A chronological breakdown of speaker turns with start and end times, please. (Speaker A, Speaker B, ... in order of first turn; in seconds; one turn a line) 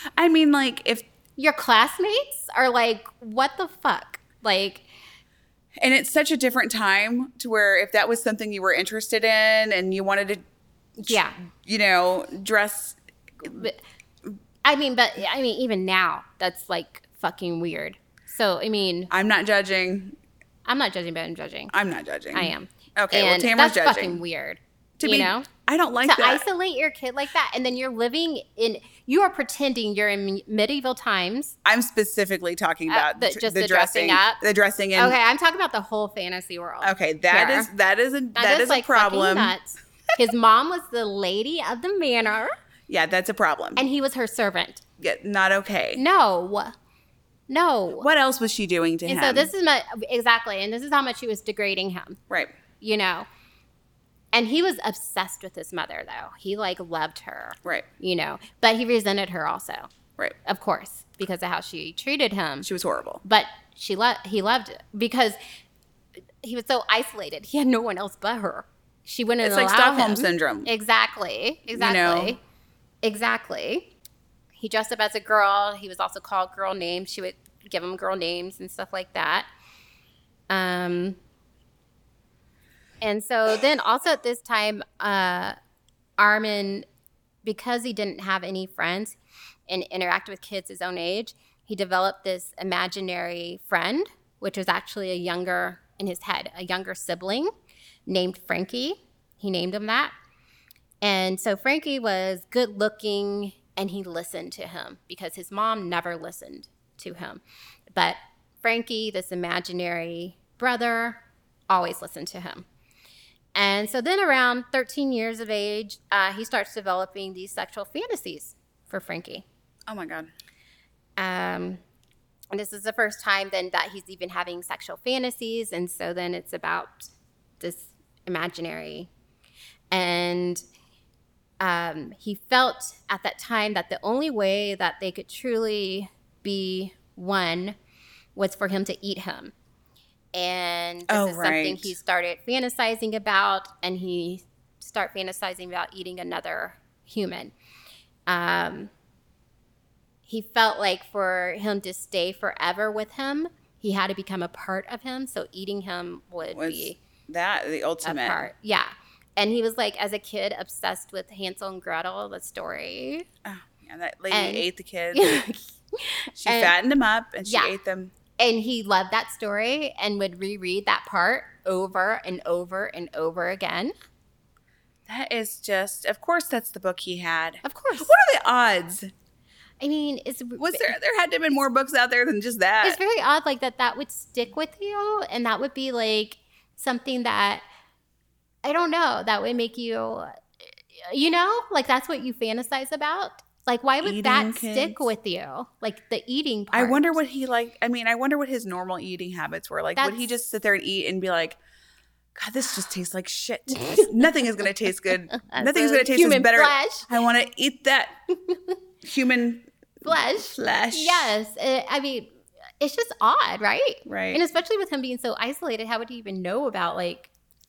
Speaker A: 0.1-1.1
Speaker B: 1.4-4.9
Speaker A: 5.8-10.4
Speaker B: 11.0-11.3
Speaker A: 11.0-13.7
Speaker B: 13.5-13.8
Speaker B: 14.6-19.1
Speaker A: 19.1-20.2
Speaker B: 20.6-21.7
Speaker A: 21.7-24.2
Speaker B: 22.3-25.5
Speaker A: 25.0-26.4
Speaker B: 26.0-31.6
Speaker A: 31.6-35.2
Speaker B: 32.9-34.4
Speaker B: 35.0-37.7
Speaker A: 36.8-39.5
Speaker B: 38.3-42.5
Speaker A: 42.9-43.8
Speaker B: 43.8-44.8
Speaker A: 45.0-46.0
Speaker B: 46.0-46.7
Speaker B: 47.5-48.1
Speaker A: 48.0-49.5
Speaker B: 49.0-52.2
Speaker B: 52.8-53.3
Speaker B: 54.3-59.9
Speaker B: 60.4-62.7
Speaker A: 62.6-63.2
Speaker B: 63.2-65.4
Speaker B: 66.4-72.4
Speaker A: 69.4-70.7
Speaker A: 71.7-72.3
Speaker B: 73.0-73.9
Speaker B: 74.6-79.5
Speaker B: 80.5-81.2
Speaker B: 83.0-85.5
Speaker B: 86.2-86.8
Speaker B: 87.4-89.2
Speaker B: 89.7-97.5
Speaker B: 98.1-100.1
Speaker B: 101.0-107.4
Speaker B: 107.9-112.7
Speaker B: 113.5-119.4
Speaker A: 119.9-120.3
Speaker B: 121.2-121.8
Speaker B: 122.5-129.1
Speaker B: 129.9-130.6
Speaker B: 131.6-137.8
Speaker B: 138.3-139.5
Speaker B: 140.3-147.5
Speaker A: 141.1-141.9
Speaker B: 148.3-148.9
Speaker B: 150.3-157.0
Speaker A: 156.5-158.5
Speaker B: 158.0-163.2
Speaker A: 163.4-165.4
Speaker B: 164.3-166.7
Speaker A: 166.4-168.1
Speaker B: 167.4-167.7
Speaker B: 168.4-173.9
Speaker A: 175.1-179.1
Speaker B: 177.6-178.1
Speaker B: 179.8-180.9
Speaker A: 180.6-183.0
Speaker B: 182.8-187.6
Speaker B: 188.6-190.3
Speaker B: 190.9-197.2
Speaker A: 194.0-195.1
Speaker A: 196.7-201.6
Speaker B: 200.0-200.2
Speaker A: 202.3-208.2
Speaker B: 203.7-204.3
Speaker B: 205.3-207.1
Speaker B: 208.5-208.7
Speaker A: 209.0-211.3
Speaker B: 210.0-217.3
Speaker A: 214.1-214.4